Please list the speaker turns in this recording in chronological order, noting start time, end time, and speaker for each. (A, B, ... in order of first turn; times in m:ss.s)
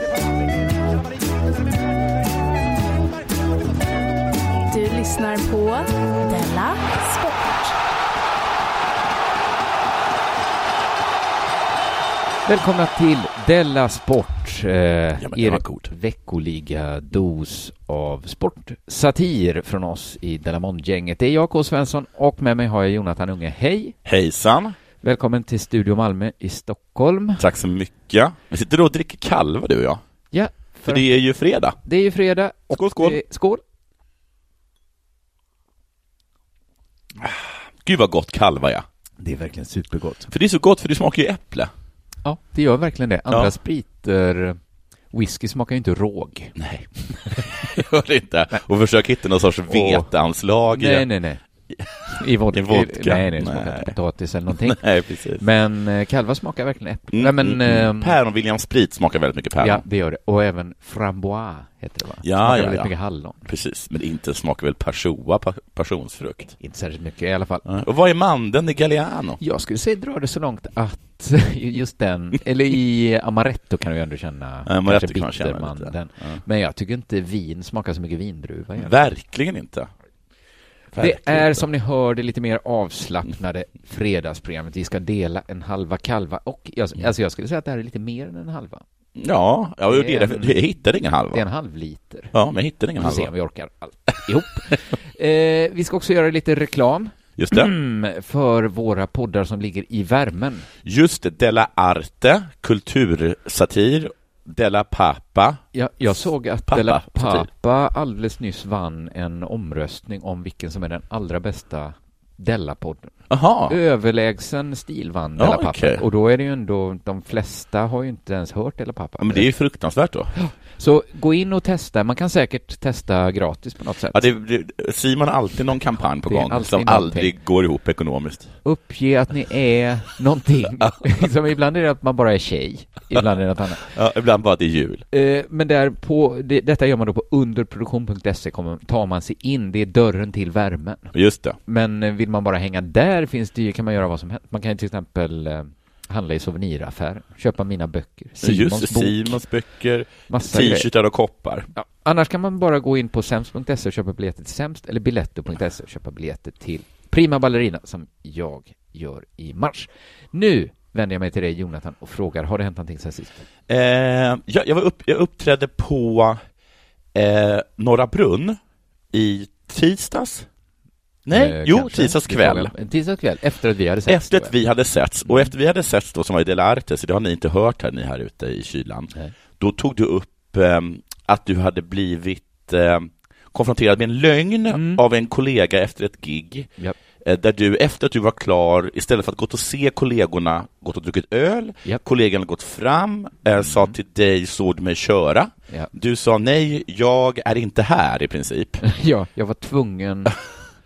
0:04.7-0:07.7 A
0:12.5-0:24.0 B
0:15.2-0:15.9 C
0:24.0-0:24.8 C
0:25.0-0:27.4 B
0:27.4-0:30.0 C
0:30.3-0:31.1 B
0:30.9-0:31.8 C
0:31.8-0:33.6 B
0:32.7-0:33.2 C
0:37.2-0:38.8 C
0:39.2-0:40.3 B
0:40.3-0:41.7 C
0:42.2-0:44.6 B
0:45.1-0:46.6 B
0:46.6-0:51.1 C
0:47.1-0:47.7 B
0:49.7-0:50.1 B
0:50.7-0:51.4 B
0:52.1-0:54.8 B
0:52.5-0:54.0 C
0:54.6-0:55.4 C
0:55.4-0:58.2 B
0:57.1-0:59.8 C
0:59.6-1:03.4 B
1:02.2-1:02.9 C
1:03.4-1:06.6 C
1:06.6-1:07.6 B
1:07.6-1:09.4 C
1:09.4-1:19.0 B
1:14.7-1:16.4 C
1:18.8-1:19.9 C
1:20.9-1:21.7 C
1:21.0-1:28.8 B
1:29.2-1:31.4 C
1:29.9-1:30.6 B
1:31.3-1:32.3 B
1:32.3-1:33.3 C
1:33.0-1:40.7 B
1:37.4-1:37.7 C
1:40.8-1:45.6 C
1:45.7-1:59.5 B
1:46.7-1:47.5 C
1:53.3-1:53.8 C
1:55.4-1:56.0 C
1:59.2-2:00.3 C
2:00.3-2:04.2 B
2:04.1-2:08.5 C
2:06.2-2:07.3 B
2:08.6-2:13.9 B
2:13.8-2:15.0 C
2:15.1-2:21.1 B
2:21.1-2:21.6 C
2:21.7-2:29.4 B
2:28.4-2:31.7 C
2:30.3-2:30.9 B
2:31.7-2:43.4 B
2:43.7-2:46.4 C
2:47.1-2:48.6 C
2:49.1-2:50.5 C
2:51.2-2:52.7 C
2:51.3-2:54.6 B
2:54.1-3:06.7 C
2:55.2-2:55.5 B
3:04.7-3:05.0 B
3:07.2-3:18.8 C
3:13.6-3:13.9 B
3:18.8-3:20.4 B